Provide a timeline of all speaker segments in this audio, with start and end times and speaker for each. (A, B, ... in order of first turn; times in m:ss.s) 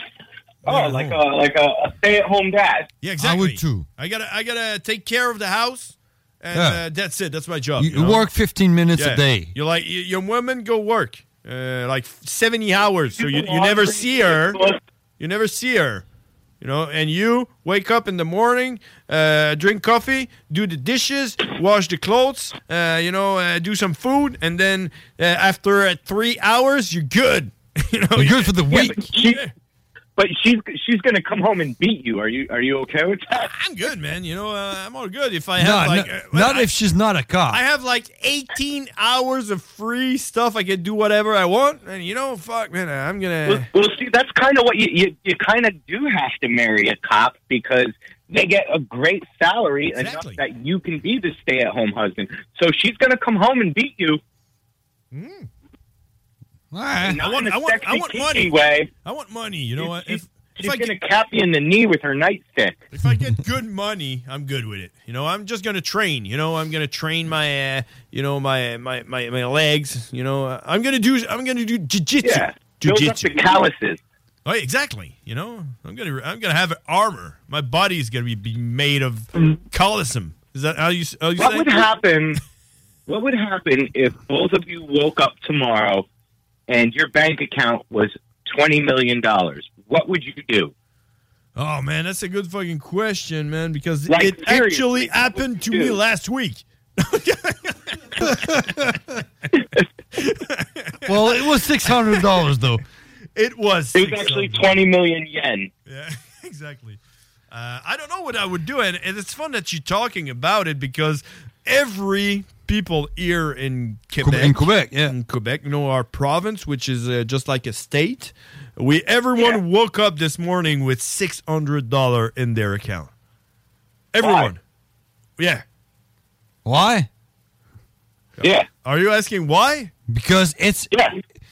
0:00.6-0:02.9 A
0:00.7-0:01.0 B
0:00.7-0:01.1 C
0:03.0-0:08.3 C
0:03.2-0:03.8 B
0:06.5-0:06.8 B
0:07.8-0:09.5 B
0:09.0-0:14.6 C
0:13.1-0:14.8 A
0:15.2-0:16.0 C
0:16.6-0:29.5 C
0:28.2-0:29.1 B
0:28.7-0:29.4 A
0:30.2-0:33.5 A
0:33.3-0:36.7 C
0:35.6-0:37.6 B
0:37.5-0:43.7 C
0:43.4-0:54.2 A
0:49.9-0:50.4 C
0:55.1-0:55.5 C
0:56.7-0:57.2 B
0:57.0-0:58.9 A
0:57.1-1:00.9 C
0:59.8-1:02.8 A
1:02.9-1:13.3 C
1:12.2-1:14.0 A
1:14.4-1:21.9 C
1:21.4-1:22.4 A
1:23.1-1:26.0 A
1:26.7-1:30.7 A
1:31.6-1:38.9 C
1:34.1-1:36.0 A
1:38.2-1:39.0 B
1:40.2-1:42.5 C
1:41.0-1:42.8 B
1:43.4-1:44.9 C
1:43.9-1:45.7 A
1:45.9-1:47.0 C
1:47.5-2:03.1 C
1:54.2-1:55.1 B
1:59.4-1:59.6 A
2:04.1-2:04.6 C
2:04.2-2:04.5 A
2:05.4-2:05.6 C
2:06.6-2:07.1 B
2:08.4-2:09.9 C
2:08.4-2:08.7 A
2:10.1-2:10.9 B